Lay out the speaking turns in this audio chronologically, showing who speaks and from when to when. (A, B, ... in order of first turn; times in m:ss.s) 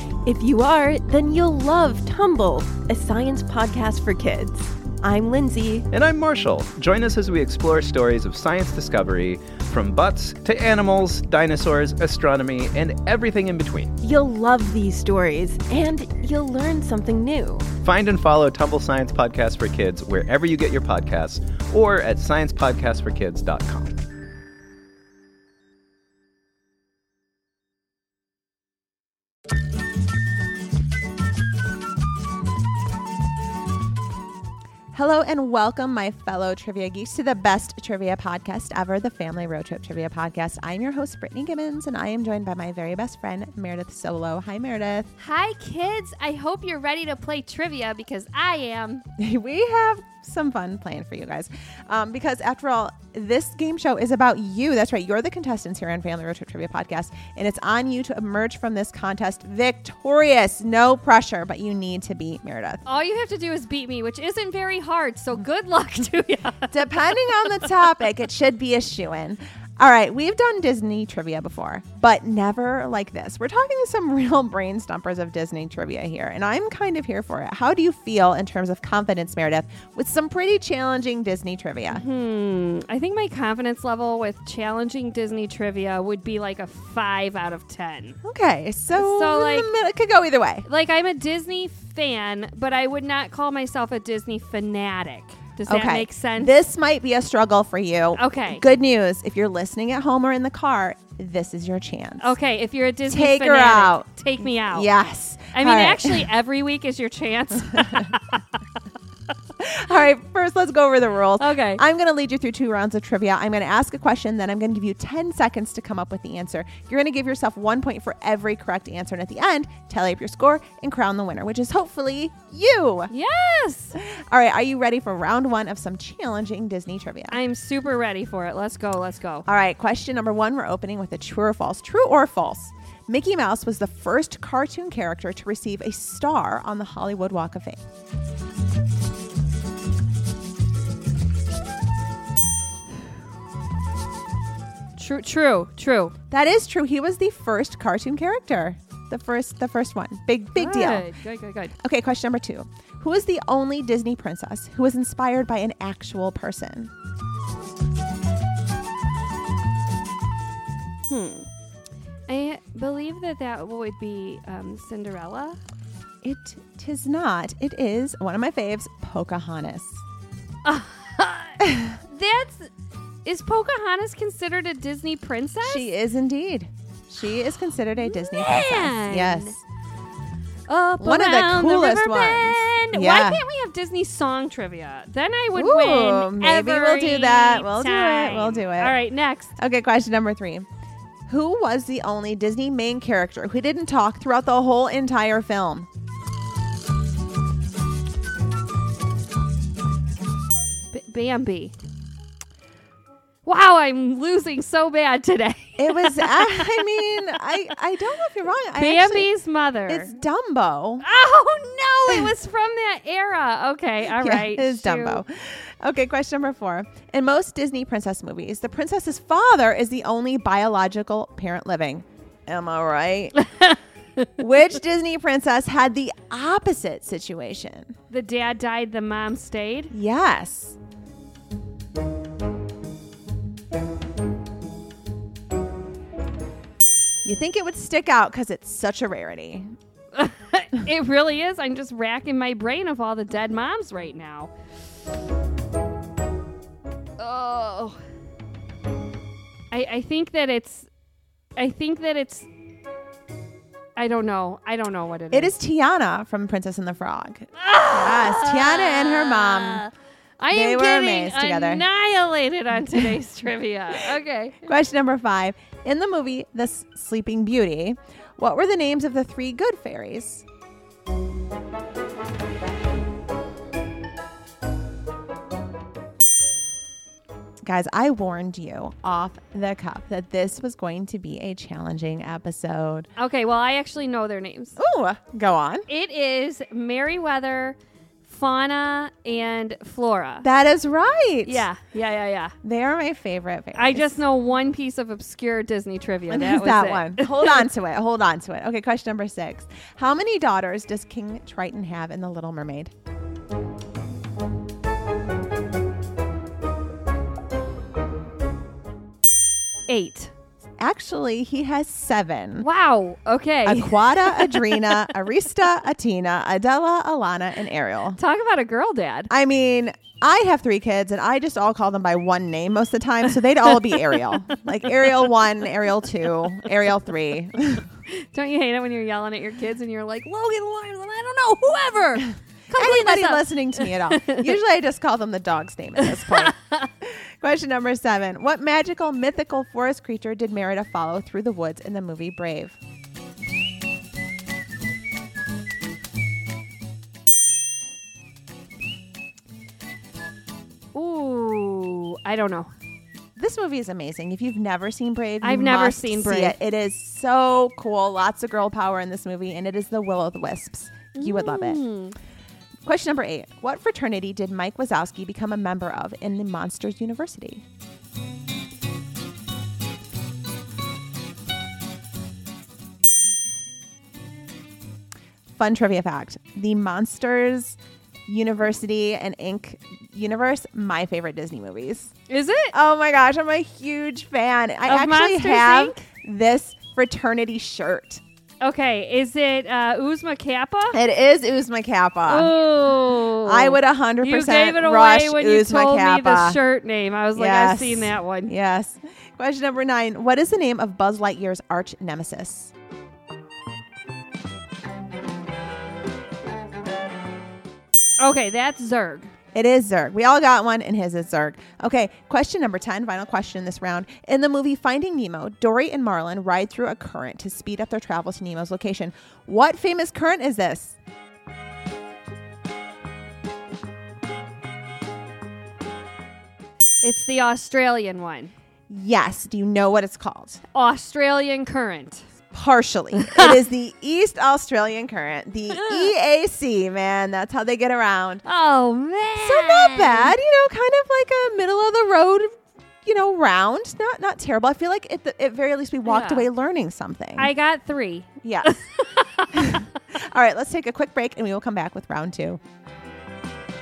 0:00.2-0:05.8 A
0:05.9-0:13.9 B
0:14.0-0:17.7 A
0:17.8-0:24.0 B
0:34.9-0:45.1 C
0:45.2-0:49.0 D
0:49.2-1:02.8 C
1:02.8-1:07.4 D
1:06.7-1:22.0 C
1:21.9-1:28.2 D
1:28.2-1:30.6 C
1:28.9-1:29.7 D
1:30.6-1:36.5 D
1:35.7-1:42.4 C
1:38.2-1:38.6 D
1:42.2-1:44.9 D
1:43.1-1:46.3 C
1:45.5-1:48.4 D
1:49.6-2:03.1 C
1:51.4-1:51.8 D
2:03.1-2:04.0 D
2:04.0-2:07.4 C
2:07.3-2:09.4 D
2:09.4-2:17.8 C
2:25.0-2:26.1 D
2:26.3-2:31.1 C
2:30.5-2:31.7 D
2:31.8-2:36.9 C
2:41.1-2:41.5 D
2:42.3-2:45.6 D
2:46.2-2:50.0 C
2:50.6-2:52.7 D
2:53.2-2:55.9 D
2:55.6-2:59.6 C
2:58.0-2:59.6 D
3:00.7-3:09.5 D
3:01.0-3:03.4 C
3:05.5-3:09.0 C
3:09.6-3:10.6 C
3:11.3-3:15.9 C
3:20.9-3:21.7 D
3:23.4-3:26.9 D
3:25.8-3:29.3 C
3:28.8-3:30.1 D
3:29.9-3:31.0 C
3:31.0-3:35.2 D
3:34.1-3:43.3 C
3:44.4-3:47.9 C
3:48.1-3:49.9 D
3:49.9-3:50.8 C
3:57.2-3:59.7 C
4:00.1-4:04.5 D
4:07.2-4:08.0 D
4:09.7-4:10.9 D
4:11.6-4:12.5 D
4:14.0-4:15.5 D
4:15.3-4:19.8 C
4:17.6-4:24.6 D
4:20.5-4:21.8 C
4:24.6-4:30.4 C
4:37.6-4:43.1 C
4:43.2-4:44.8 D
4:44.8-4:45.8 C
4:45.9-4:50.4 D
4:50.4-4:51.6 C
4:51.4-4:52.5 D
4:52.6-4:54.2 C
4:53.7-4:57.7 D
4:56.3-5:02.9 C
5:09.9-5:10.3 D
5:10.8-5:12.6 C
5:12.6-5:14.8 D
5:13.6-5:18.2 C
5:18.2-5:19.3 D
5:19.3-5:27.8 C
5:28.1-5:34.4 D
5:32.7-5:36.6 C
5:37.4-5:42.8 C
5:50.9-5:52.7 D
5:53.4-6:01.8 C
5:55.4-5:56.6 D
6:01.2-6:02.1 D
6:02.8-6:07.6 C
6:15.5-6:22.1 C
6:22.3-6:22.7 D
6:22.7-6:28.2 C
6:24.8-6:26.0 D
6:28.6-6:31.0 D
6:30.9-6:32.5 C
6:32.3-6:38.5 D
6:33.4-6:36.6 C
6:37.4-6:42.7 C
6:48.2-6:49.3 D
6:49.5-7:01.0 C
7:07.0-7:08.5 D
7:08.9-7:10.6 C
7:10.7-7:12.3 D
7:12.5-7:18.4 C
7:15.7-7:16.1 D
7:18.4-7:20.4 D
7:19.3-7:27.5 C
7:26.0-7:26.5 D
7:27.4-7:29.7 D
7:28.4-7:28.8 C
7:29.5-7:32.6 C